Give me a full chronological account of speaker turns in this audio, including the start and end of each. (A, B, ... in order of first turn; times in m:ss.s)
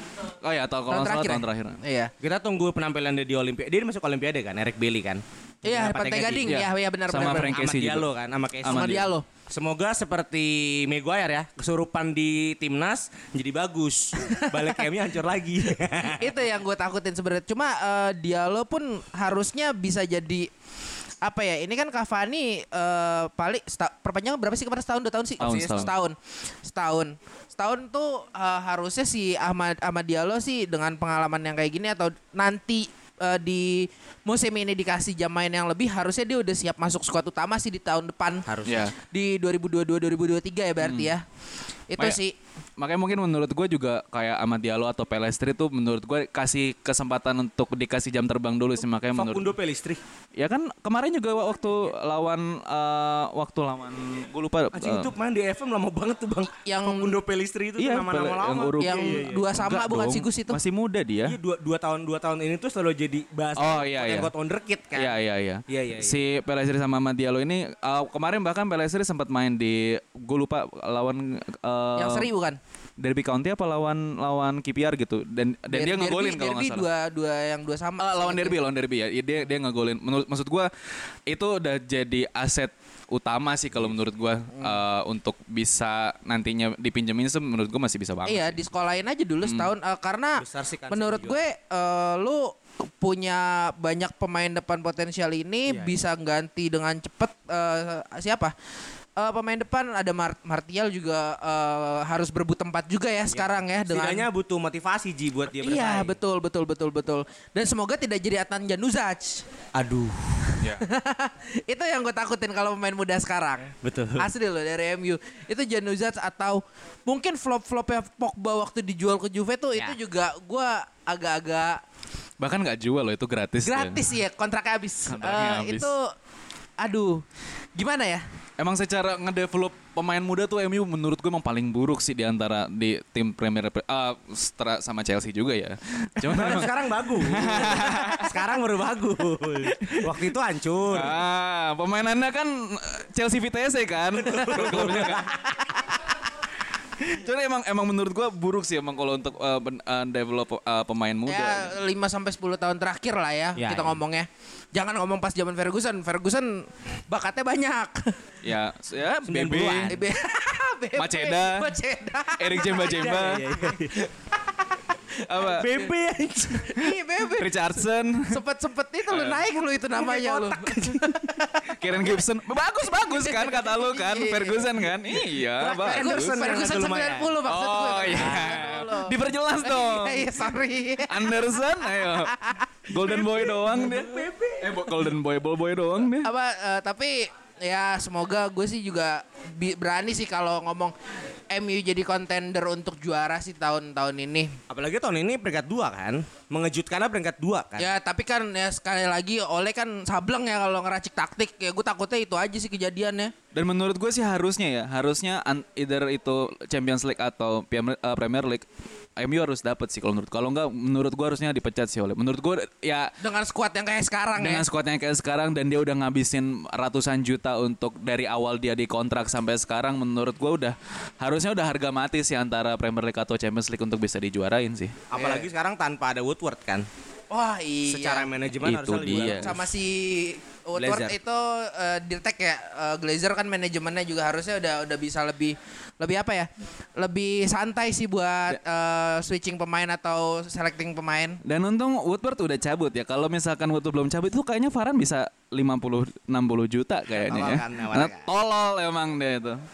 0:00.4-0:01.8 A
0:00.9-0:02.1 B
0:02.2-0:06.6 C
0:05.7-0:07.6 B
0:06.5-0:08.1 A
0:07.2-0:08.9 C
0:08.6-0:09.1 A
0:08.6-0:09.2 B
0:09.5-0:16.3 C
0:14.2-0:14.8 B
0:16.0-0:20.5 B
0:21.2-0:38.4 B
0:25.4-0:25.9 A
0:38.5-0:38.9 C
0:38.7-0:38.9 A
0:39.1-0:41.2 B
0:40.8-0:41.1 A
0:41.9-0:42.3 B
0:42.8-0:49.6 A
0:49.2-0:50.0 C
0:50.4-0:55.1 A
0:54.7-0:59.4 C
0:56.6-0:57.2 B
0:57.8-1:01.4 A
0:58.8-1:00.6 B
1:01.2-1:05.2 C
1:03.6-1:04.3 A
1:05.0-1:12.3 A
1:05.7-1:06.2 C
1:12.0-1:12.6 B
1:13.0-1:16.9 A
1:15.7-1:18.6 B
1:18.0-1:20.7 A
1:21.3-1:28.6 A
1:28.3-1:38.5 B
1:29.4-1:29.7 A
1:30.4-1:31.4 C
1:35.7-1:35.9 C
1:39.2-1:44.3 B
1:43.3-1:46.2 C
1:45.6-1:49.4 B
1:49.8-1:50.5 C
1:50.5-2:01.8 B
1:53.8-1:54.3 C
2:02.4-2:04.0 A
2:03.6-2:06.0 B
2:05.1-2:05.9 A
2:06.8-2:07.2 B
2:07.8-2:08.2 B
2:08.6-2:18.4 A
2:16.2-2:21.2 C
2:19.6-2:20.2 A
2:20.9-2:25.3 A
2:24.2-2:25.3 C
2:27.0-2:31.7 A
2:31.3-2:38.1 B
2:33.6-2:34.0 C
2:38.4-2:39.9 A
2:39.2-2:40.0 C
2:39.9-2:43.2 B
2:41.0-2:41.7 A
2:42.4-2:43.5 A
2:43.0-2:44.1 C
2:45.3-2:45.7 A
2:45.4-2:46.7 C
2:46.6-2:47.6 B
2:46.8-2:48.4 A
2:48.3-2:51.7 B
2:49.1-2:49.4 A
2:49.9-2:51.2 C
2:51.8-2:56.4 A
2:52.8-2:54.7 B
2:55.6-2:57.4 C
2:55.8-3:02.6 B
2:57.5-3:00.5 A
2:58.0-2:58.6 C
3:01.1-3:06.3 A
3:03.0-3:04.8 C
3:06.2-3:10.9 B
3:11.5-3:14.5 B
3:14.7-3:17.9 C
3:17.8-3:23.3 B
3:23.5-3:28.6 A
3:29.2-3:33.1 A
3:33.2-3:34.6 B
3:34.4-3:45.0 A
3:45.1-3:46.9 C
3:45.2-3:45.4 B
3:47.3-3:48.3 B
3:47.9-3:49.7 C
3:48.6-3:49.5 A
3:49.1-4:01.4 B
3:50.8-3:51.1 C
4:01.4-4:09.6 A
4:07.1-4:08.3 C